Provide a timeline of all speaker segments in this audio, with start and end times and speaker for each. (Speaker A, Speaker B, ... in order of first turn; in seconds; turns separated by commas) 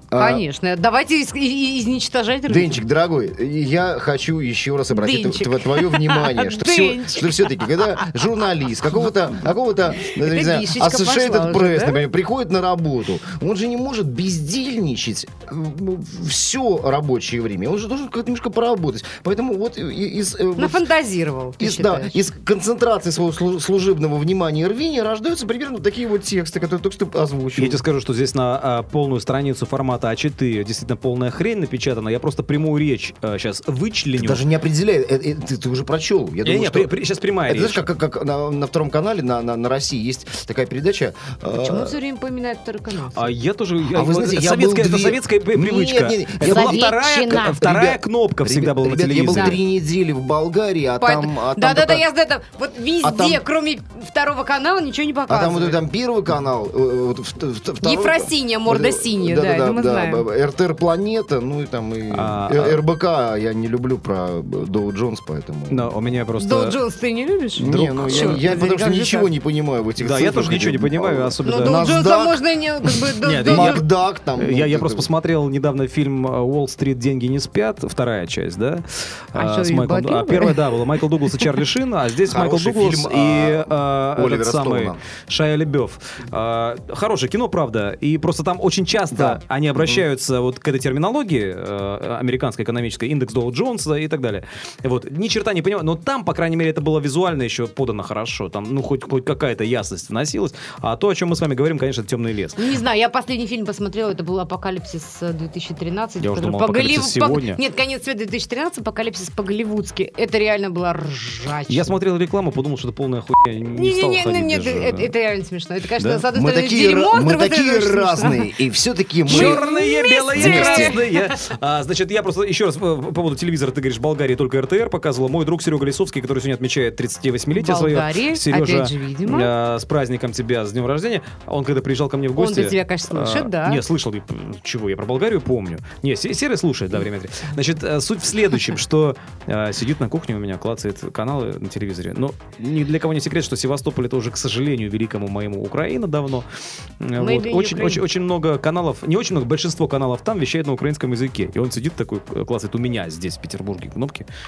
Speaker A: 0.1-0.4, Speaker B: 0.1-2.8, Speaker A: 2.5-20.9, Speaker B: 4.9-7.9, Speaker B: 10.1-12.0, Speaker B: 20.6-22.2, Speaker A: 21.6-27.8, Speaker C: 27.5-34.4, Speaker A: 34.1-36.9, Speaker C: 36.4-37.8, Speaker A: 37.5-42.0, Speaker B: 41.5-43.3, Speaker C: 43.1-49.6, Speaker A: 43.9-46.9, Speaker B: 46.4-47.8, Speaker A: 47.5-52.1, Speaker B: 49.3-49.6, Speaker B: 51.0-55.8, Speaker A: 53.0-53.4, Speaker A: 55.3-65.9, Speaker B: 57.8-60.2, Speaker C: 62.1-62.8, Speaker C: 65.7-66.8, Speaker B: 66.3-69.3, Speaker A: 67.6-72.4, Speaker C: 67.7-68.4, Speaker C: 70.0-71.8, Speaker B: 71.4-73.8, Speaker C: 73.2-73.8, Speaker A: 73.3-75.1, Speaker C: 74.4-102.7, Speaker B: 79.3-81.5, Speaker A: 82.3-85.0, Speaker A: 89.1-90.1, Speaker B: 102.5-111.9, Speaker C: 106.2-107.6, Speaker C: 111.7-115.1, Speaker B: 113.7-118.5, Speaker C: 116.0-116.2, Speaker A: 116.2-119.6, Speaker B: 119.3-121.4, Speaker C: 119.3-146.5, Speaker A: 120.3-121.0, Speaker B: 127.5-129.5, Speaker B: 132.3-133.8, Speaker C: 147.0-154.3, Speaker B: 147.2-148.0